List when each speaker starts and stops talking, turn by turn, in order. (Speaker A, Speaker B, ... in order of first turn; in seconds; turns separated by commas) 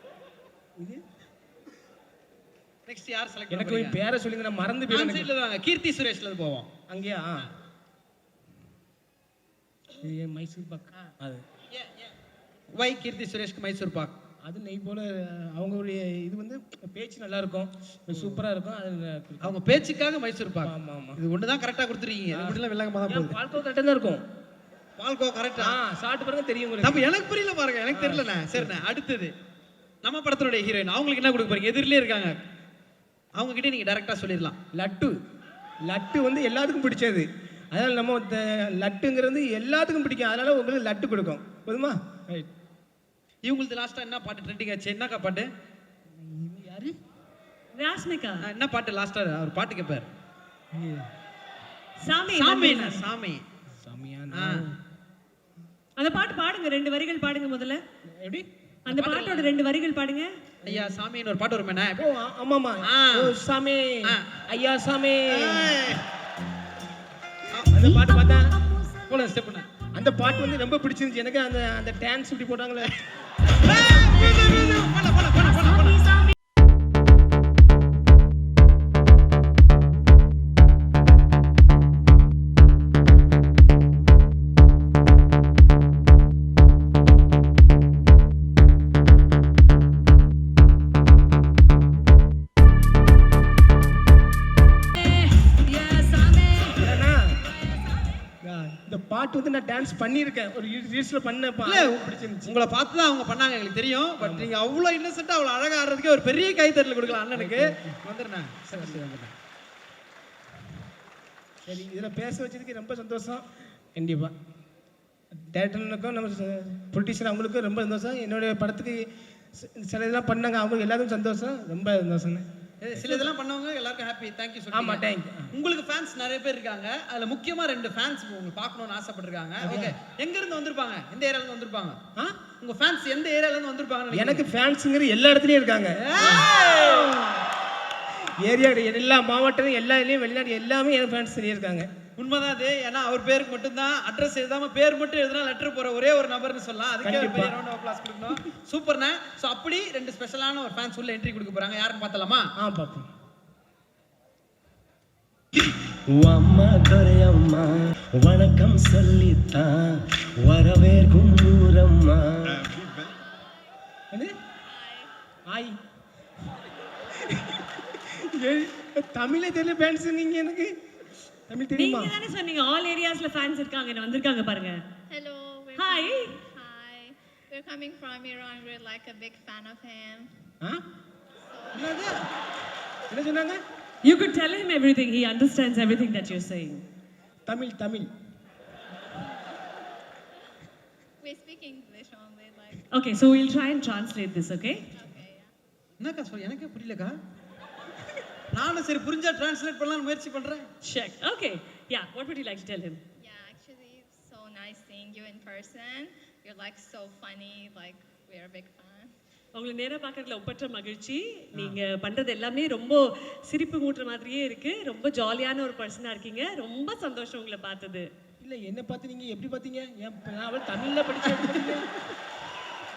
Speaker A: 0.8-1.0, Speaker B: 2.9-4.0, Speaker A: 3.5-5.3, Speaker B: 4.9-6.7, Speaker A: 6.9-7.5, Speaker A: 10.0-11.4, Speaker B: 11.7-12.1, Speaker B: 12.7-14.1, Speaker A: 14.4-19.6, Speaker B: 18.1-18.4, Speaker B: 19.4-23.4, Speaker A: 20.6-21.2, Speaker A: 22.3-24.2, Speaker B: 25.0-25.8, Speaker A: 25.6-27.1, Speaker B: 26.8-29.3, Speaker A: 27.9-28.8, Speaker B: 30.0-32.4, Speaker B: 33.4-34.5, Speaker A: 34.7-35.2, Speaker A: 35.9-42.5, Speaker B: 43.4-45.5, Speaker A: 46.2-46.9, Speaker C: 47.7-48.5, Speaker B: 48.4-50.1, Speaker A: 50.7-51.1, Speaker C: 52.0-53.0, Speaker B: 52.3-53.4, Speaker A: 53.8-54.8, Speaker B: 54.3-54.7, Speaker C: 56.0-57.8, Speaker A: 58.1-58.5, Speaker C: 58.9-60.3, Speaker B: 58.9-59.5, Speaker A: 60.6-61.0, Speaker B: 60.6-62.0, Speaker A: 62.0-65.8, Speaker B: 62.8-63.4, Speaker B: 64.0-64.3, Speaker B: 65.3-66.0, Speaker B: 67.5-67.9, Speaker A: 67.6-68.7, Speaker B: 68.9-69.7, Speaker A: 69.9-73.0, Speaker B: 73.5-76.3, Speaker B: 96.0-96.6, Speaker A: 96.7-97.5, Speaker A: 98.4-102.5, Speaker B: 101.6-109.3, Speaker A: 104.2-104.5, Speaker A: 107.3-108.0, Speaker A: 108.7-109.1, Speaker A: 111.6-114.3, Speaker A: 115.3-123.3, Speaker B: 122.8-132.0, Speaker A: 124.7-125.5, Speaker A: 129.6-129.9, Speaker B: 132.6-134.4, Speaker A: 134.1-136.5, Speaker B: 136.0-137.2, Speaker C: 136.4-137.1, Speaker A: 138.4-141.9, Speaker B: 142.2-152.5, Speaker A: 147.0-147.5, Speaker A: 152.6-153.1, Speaker D: 156.2-162.7, Speaker E: 164.7-165.1, Speaker A: 165.5-165.8, Speaker A: 167.1-170.7, Speaker A: 171.5-172.1, Speaker C: 171.8-174.8, Speaker E: 175.1-180.3, Speaker C: 175.8-176.4, Speaker E: 181.5-182.2, Speaker B: 181.7-182.2, Speaker A: 183.1-183.6, Speaker C: 184.0-186.8, Speaker A: 187.4-188.1, Speaker E: 191.2-192.8, Speaker C: 192.9-194.9, Speaker E: 194.9-195.5, Speaker B: 196.0-197.1, Speaker B: 198.5-200.7, Speaker C: 200.8-203.0, Speaker E: 203.2-209.1, Speaker C: 209.5-218.1, Speaker A: 211.5-211.8, Speaker A: 218.4-221.9